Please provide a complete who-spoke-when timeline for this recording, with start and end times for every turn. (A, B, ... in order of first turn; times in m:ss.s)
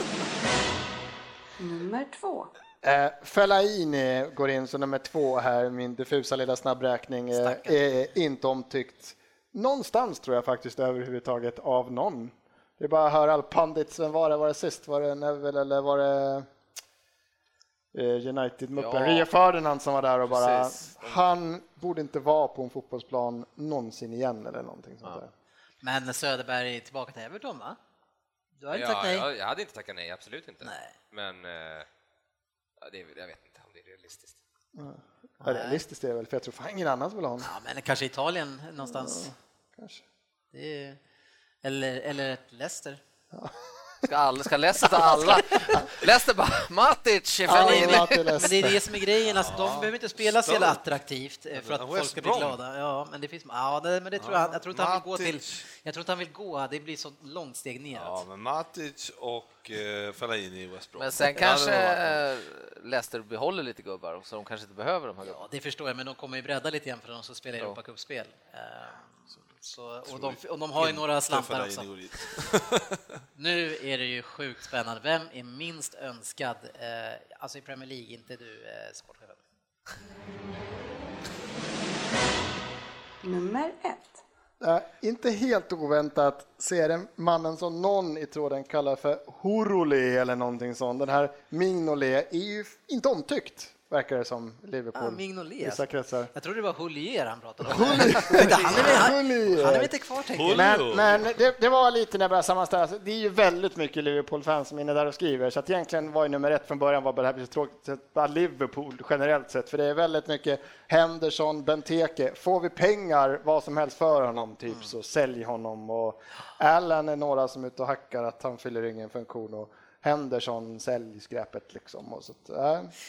0:01.6-0:02.5 A
0:02.8-0:16.5 B
0:07.3-0:07.8 C
0:17.9-0:25.3 B
0:18.8-0:19.3 D
0:20.2-0:21.2 D
0:25.8-0:27.8 C
0:28.6-0:29.3 C
0:28.7-0:31.9 E
0:30.6-0:30.9 C
0:32.8-0:34.4 E
0:34.8-0:37.5 B
0:35.4-0:35.8 C
0:37.4-0:39.3 C
0:38.8-0:40.0 B
0:40.5-0:41.0 C
0:41.6-0:43.0 C
0:43.3-0:44.0 B
0:44.0-0:48.3 D
0:44.8-0:45.9 B
0:47.4-0:48.8 B
0:47.5-0:58.2 C
0:49.2-0:50.8 F
0:51.5-0:52.6 F
0:54.2-0:55.6 F
0:57.9-1:02.2 F
1:01.0-1:05.4 D
1:05.2-1:11.9 C
1:10.1-1:13.0 F
1:13.4-1:19.4 C
1:23.2-1:24.2 A
1:24.6-1:36.3 B
1:34.9-1:40.8 C
1:37.6-1:39.9 B
1:40.3-1:41.2 F
1:40.5-2:02.9 B